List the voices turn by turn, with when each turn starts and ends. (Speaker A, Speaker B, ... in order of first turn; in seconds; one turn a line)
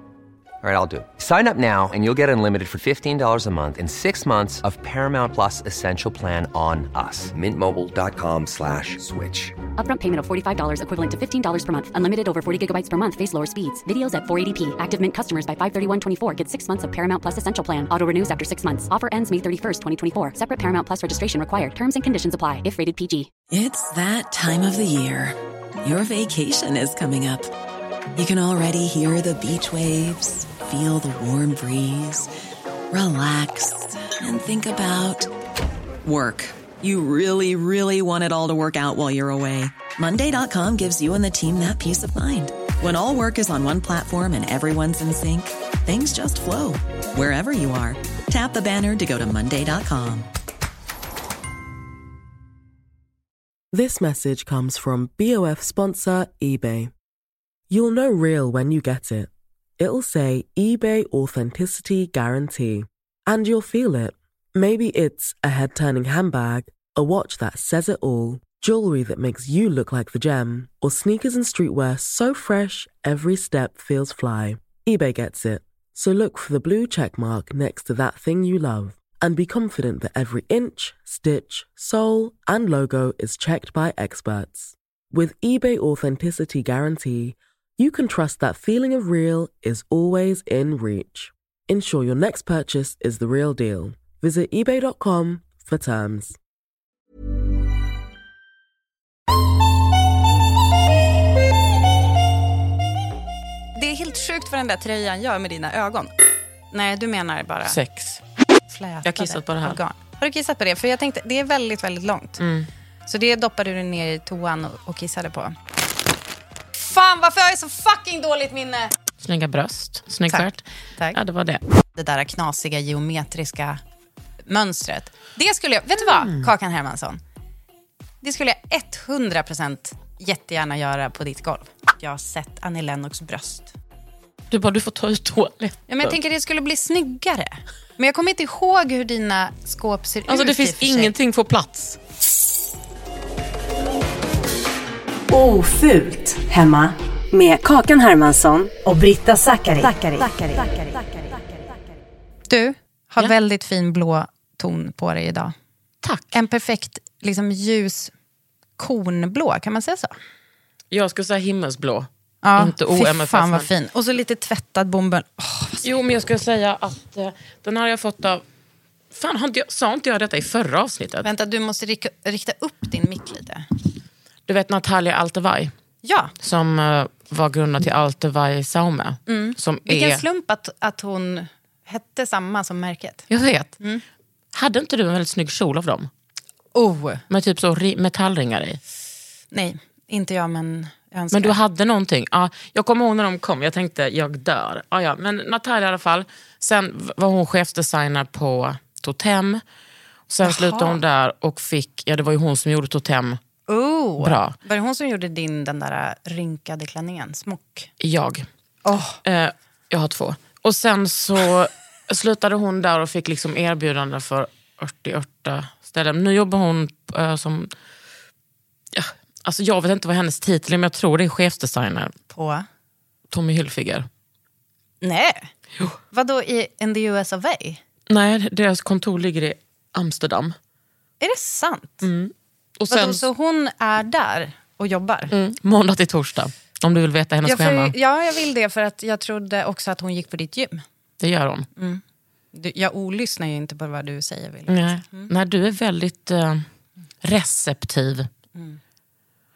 Speaker A: 0.6-9.6
Speaker B: 9.8-23.3
Speaker C: 23.5-27.5
Speaker C: 28.1-32.3
Speaker C: 32.9-35.3
Speaker C: 36.0-50.3
Speaker D: 53.7-56.9
Speaker D: 57.7-96.4
Speaker E: 103.7-106.1
Speaker E: 106.7-107.8
Speaker F: 107.7-108.2
Speaker E: 108.7-112.4
Speaker F: 109.0-109.8
Speaker F: 112.4-112.7
Speaker E: 113.0-115.5
Speaker E: 116.7-118.9
Speaker F: 119.2-120.6
Speaker E: 120.3-121.2
Speaker F: 121.1-121.6
Speaker E: 122.0-123.8
Speaker E: 124.5-127.2
Speaker E: 128.2-133.7
Speaker F: 134.5-136.2
Speaker E: 135.9-141.1
Speaker F: 140.3-142.0
Speaker G: 145.3-151.3
Speaker E: 152.5-155.5
Speaker F: 156.0-156.3
Speaker E: 156.3-158.1
Speaker E: 158.8-160.1
Speaker F: 160.9-163.7
Speaker E: 162.4-165.8
Speaker F: 165.8-168.4
Speaker F: 169.1-171.3
Speaker E: 171.2-173.6
Speaker F: 174.5-175.7
Speaker E: 176.0-176.3
Speaker F: 176.4-180.2
Speaker E: 179.3-183.2
Speaker F: 183.3-183.8
Speaker F: 184.5-186.1
Speaker E: 186.7-187.2
Speaker F: 187.3-188.8
Speaker E: 189.5-191.6
Speaker F: 191.3-199.6
Speaker F: 200.3-203.4
Speaker E: 200.4-201.0
Speaker E: 203.7-207.9
Speaker F: 204.2-204.5
Speaker F: 208.0-208.4
Speaker E: 208.8-209.2
Speaker F: 209.2-217.7
Speaker F: 218.9-222.1
Speaker E: 222.3-222.6
Speaker F: 223.3-224.1
Speaker E: 225.0-225.5
Speaker E: 226.1-227.8
Speaker F: 228.1-230.5
Speaker E: 231.2-232.1
Speaker F: 232.0-233.2
Speaker E: 232.9-235.3
Speaker F: 235.3-237.9
Speaker E: 237.4-240.8
Speaker F: 241.2-241.7
Speaker E: 241.8-242.0
Speaker E: 242.5-245.3
Speaker F: 244.7-246.7
Speaker F: 247.2-248.3